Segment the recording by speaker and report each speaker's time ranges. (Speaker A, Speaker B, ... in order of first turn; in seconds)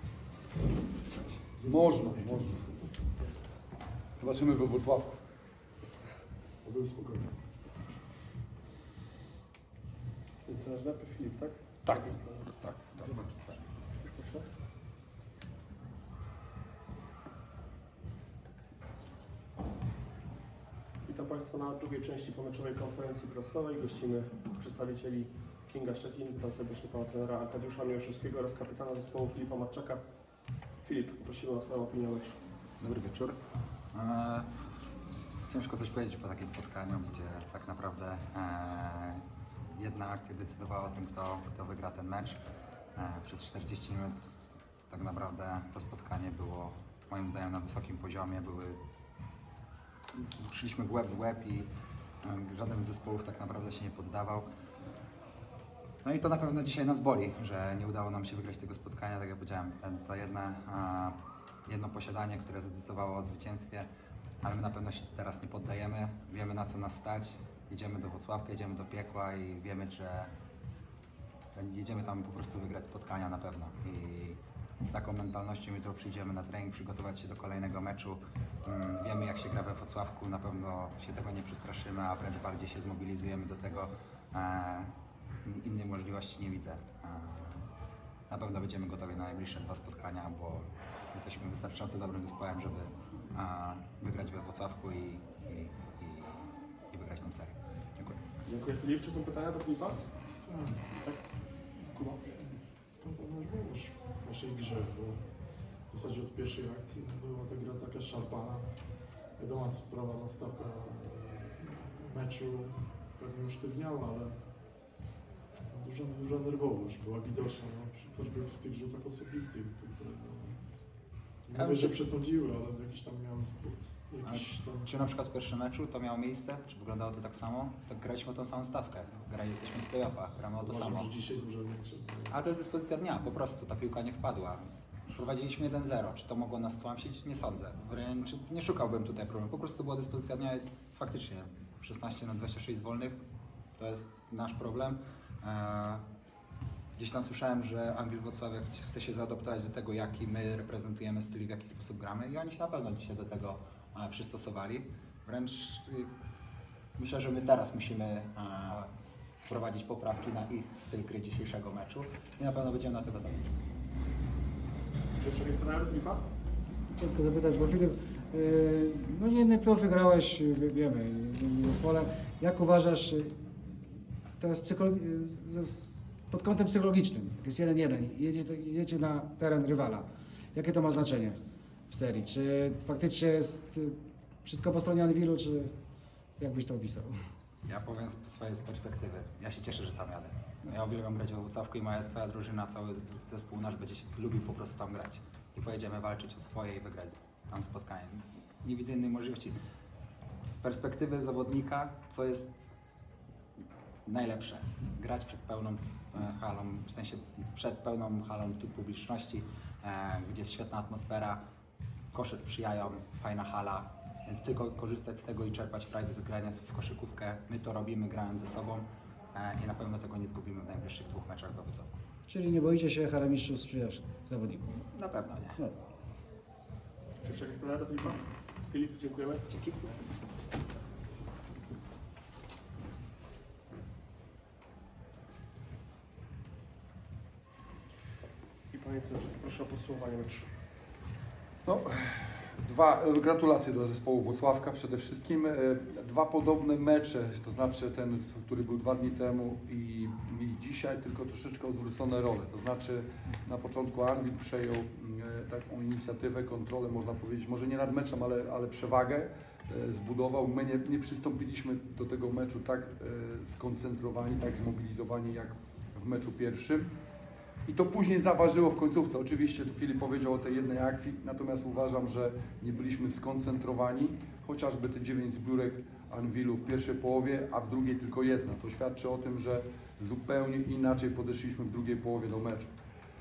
Speaker A: 1.1-2.9, 4.2-5.2, 11.8-13.2, 241.6-266.9, 267.6-282.7
Speaker B: 1.6-2.5, 6.6-7.3, 100.4-100.9, 101.9-105.3, 105.9-108.8, 109.4-114.4, 115.7-120.7, 121.5-125.2, 130.6-132.4
Speaker C: 10.4-12.5, 14.0-14.4, 21.0-30.0, 30.8-32.4, 98.5-100.0, 101.0-101.3, 165.2-166.2, 227.2-229.5, 238.7-240.5
Speaker D: 32.8-33.4, 33.9-34.5, 35.5-42.4, 43.0-44.2, 44.9-48.8, 50.1-51.7, 52.2-54.5, 56.0-61.1, 61.6-63.9, 64.4-70.3, 71.5-84.9, 85.4-87.7, 88.3-96.3, 96.9-98.2, 121.5-122.0, 124.2-131.1, 132.3-143.2, 143.8-146.0, 147.0-156.1, 157.0-158.9, 159.5-163.5, 187.7-199.6, 200.4-202.5, 204.1-211.4, 212.1-222.0, 224.9-225.6, 229.5-229.9
Speaker E: 166.9-173.3, 174.4-181.4, 181.9-185.7, 186.4-187.1, 222.3-224.8